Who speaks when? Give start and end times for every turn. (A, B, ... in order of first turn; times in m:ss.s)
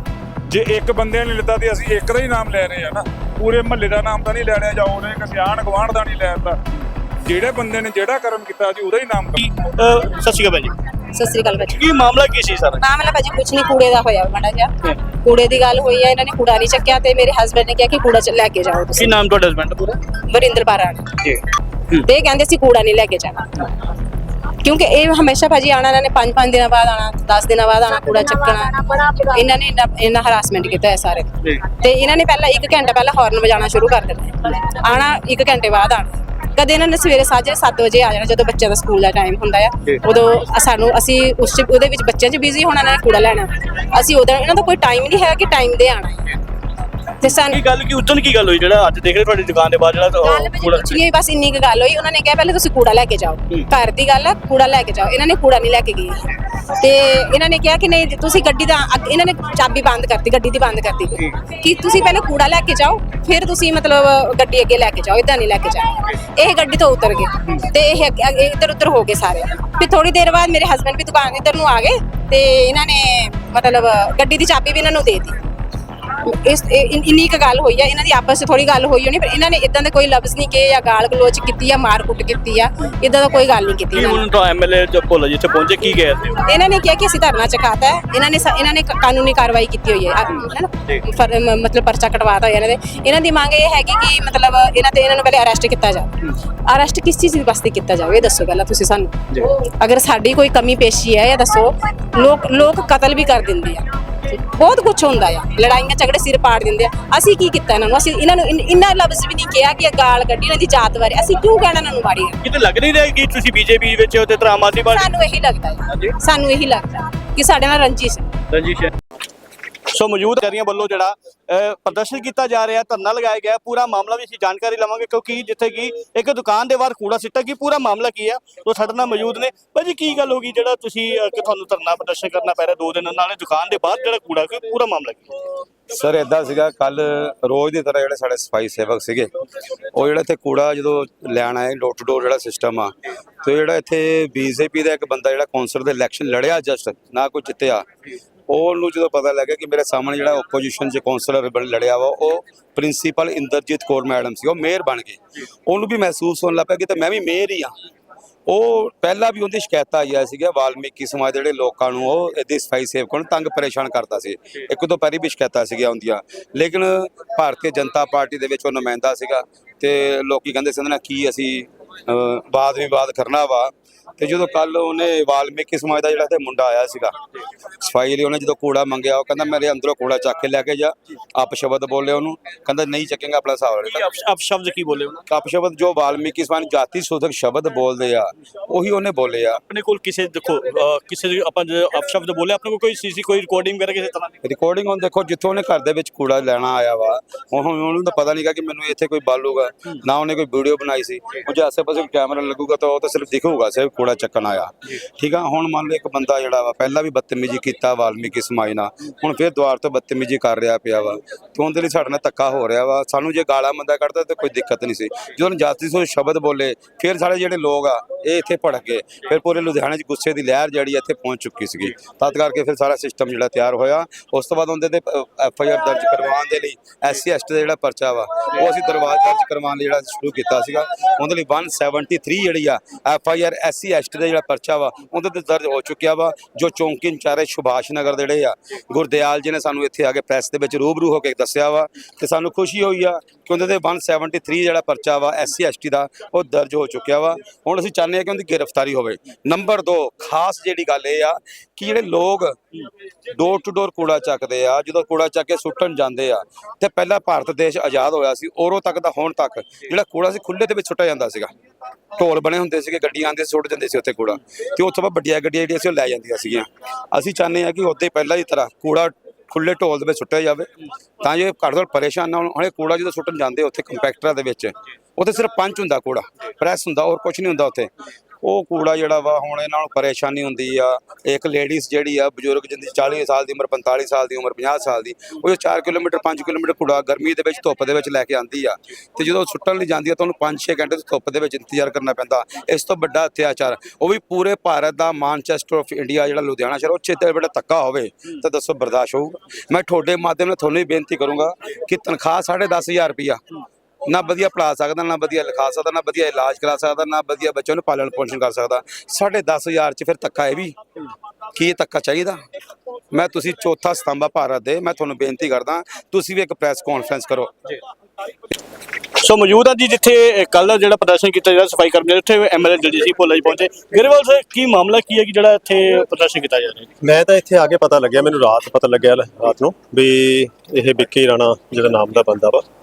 0:00.5-0:06.6 A
0:07.2-0:09.4 A
0:09.4-0:10.7 B
0:11.1-0:11.8 C
0:11.7-0:12.8 B
0:12.8-0:19.2 C
0:19.0-0:20.0 B
0:20.3-0:21.1 C
0:22.0-0:23.4 C
0:24.6-0:46.3 C
0:47.2-0:47.6 C
0:47.2-0:51.0 B
0:50.2-0:56.2 C
0:56.8-1:15.4 C
1:16.2-1:24.2 C
1:23.9-1:26.4 B
1:26.5-1:52.4 C
1:52.4-1:55.1 B
1:54.9-1:58.3 C
1:58.5-1:58.9 B
1:59.9-2:15.4 B
2:15.9-2:19.3 D
2:19.9-2:27.9 D
2:28.5-2:37.7 D
2:38.5-2:57.2 D
2:57.8-3:04.0 D
3:03.8-3:05.2 B
3:05.3-3:09.6 D
3:09.7-3:14.4 B
3:14.4-4:12.6 D
4:13.4-4:21.5 D
4:22.2-4:30.7 D
4:31.2-4:37.9 D
4:38.4-5:03.4 D
5:04.1-5:10.8 D
5:11.6-5:12.4 D
5:13.1-5:17.5 D
5:19.2-5:26.9 B
5:27.0-5:32.6 E